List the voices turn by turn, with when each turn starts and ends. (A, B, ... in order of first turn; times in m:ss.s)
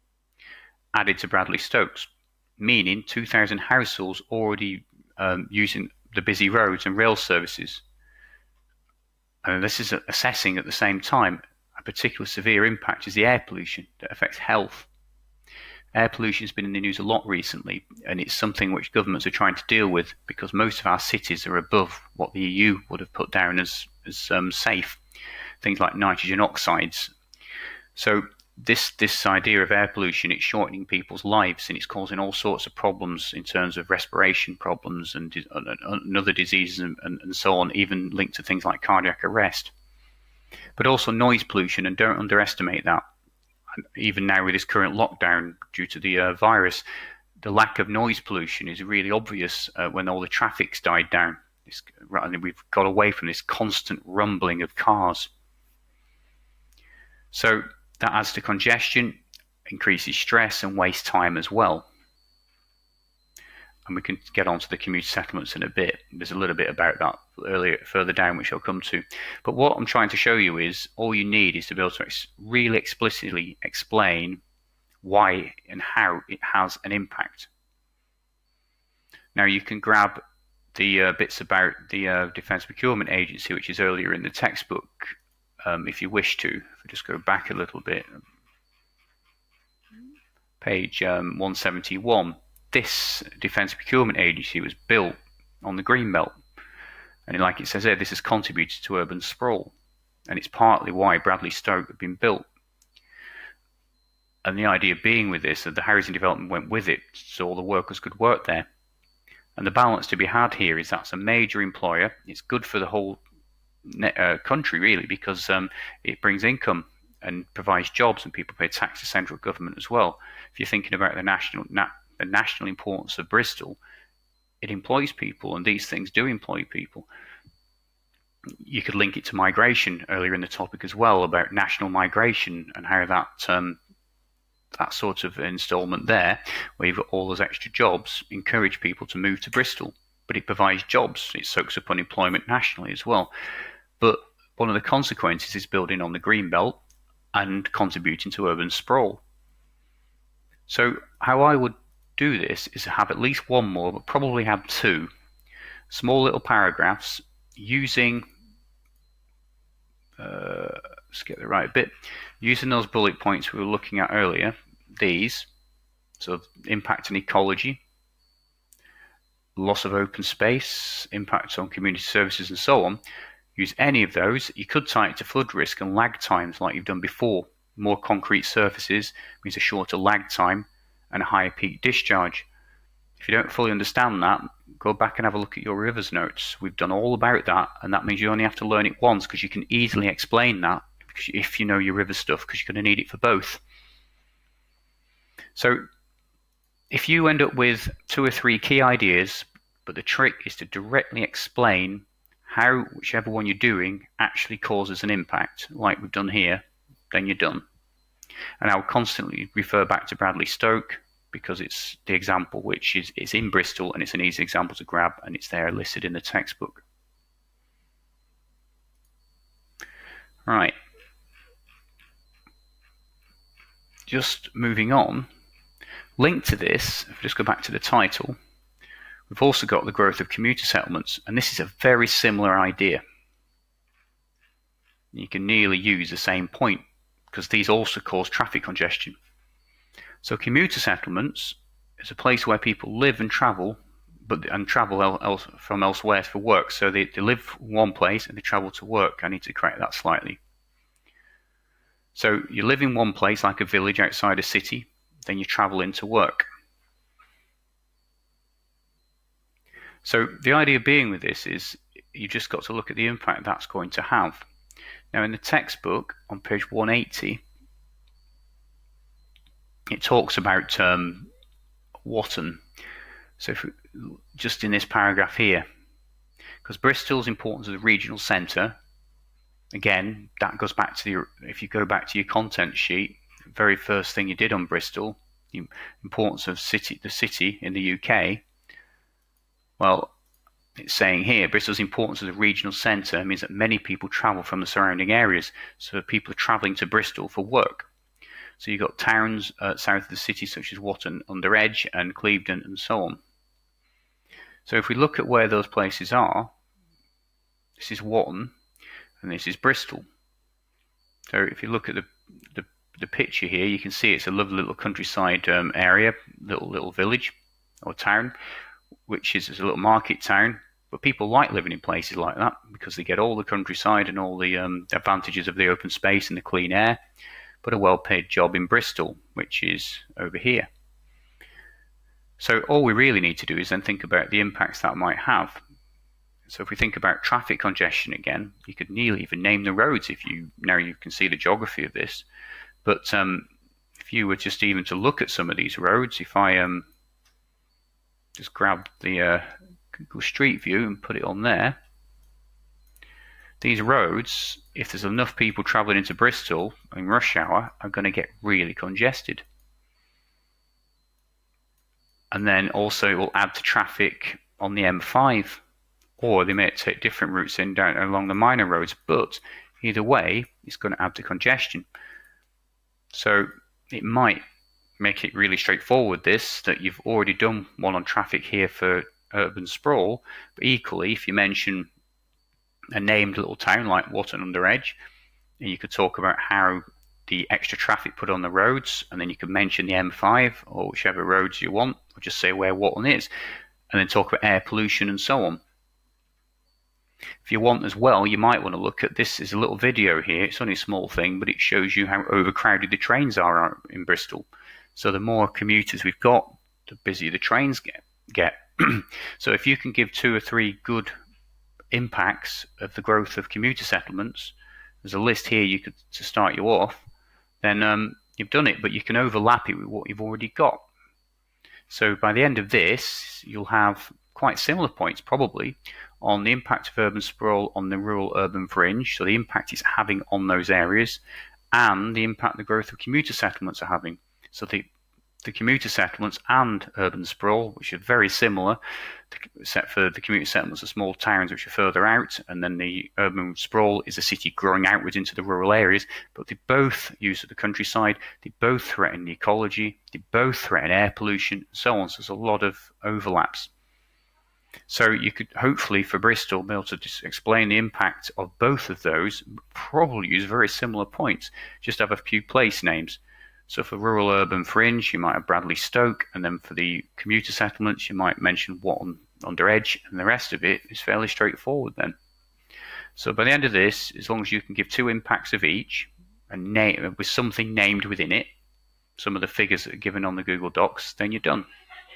0:00.9-0:07.8 A
0:09.4-0:14.9 A
0:15.9-0:25.0 A
0:25.6-0:27.1 A
0:28.0-0:39.7 A
0:40.8-0:43.0 A
0:43.8-0:46.8 A
0:47.4-0:55.3 A
0:57.3-1:01.9 A
1:03.9-1:14.4 A
1:15.0-1:17.5 A
1:19.4-1:20.2 A
1:20.8-1:28.1 A
1:30.6-1:36.4 A
1:37.3-1:39.7 A
1:40.3-1:42.5 A
1:44.4-1:48.7 A
1:49.6-1:53.2 A
1:53.8-2:03.8 A
2:04.6-2:07.1 A
2:08.6-2:13.8 A
2:14.7-2:23.3 A
2:24.0-2:26.8 A
2:27.3-2:29.2 A
2:30.7-2:35.1 A
2:35.9-2:38.3 A
2:40.2-2:45.5 A
2:46.2-2:47.8 A
2:49.6-2:53.0 A
2:53.6-3:02.5 A
3:03.2-3:13.6 A
3:15.6-3:15.8 A
3:16.9-3:27.7 A
3:28.6-3:36.8 A
3:40.5-3:40.8 A
3:44.1-3:45.3 A
3:46.2-3:48.4 A
3:49.3-3:53.0 A
3:55.1-3:59.2 A
4:00.2-4:10.4 A
4:12.2-4:16.5 A
4:20.0-4:24.4 A
4:25.1-4:27.4 A
4:29.9-4:31.3 A
4:32.0-4:32.6 A
4:33.4-4:35.6 A
4:36.6-4:38.8 A
4:39.7-4:48.4 A
4:49.8-4:50.1 A
4:50.8-4:57.9 A
4:58.6-5:03.2 A
5:04.7-5:06.5 A
5:07.8-5:08.6 A
5:09.2-5:10.0 A
5:11.3-5:18.3 A
5:19.1-5:27.0 A
5:27.6-5:30.7 A
5:32.4-5:35.6 A
5:36.5-5:42.2 A
5:42.8-5:46.9 A
5:48.4-5:51.8 A
5:53.6-5:59.4 A
6:02.3-6:05.6 A
6:06.2-6:11.9 A
6:13.1-6:14.4 A
6:15.0-6:21.9 A
6:23.0-6:25.0 A
6:25.6-6:33.3 A
6:33.9-6:35.6 A
6:37.4-6:51.1 A
6:51.9-6:57.1 A
6:57.6-7:00.9 A
7:01.9-7:11.2 A
7:11.7-7:14.9 A
7:15.4-7:18.8 A
7:19.3-7:33.7 A
7:34.9-7:52.2 A
7:53.2-7:58.5 A
7:59.2-8:01.7 A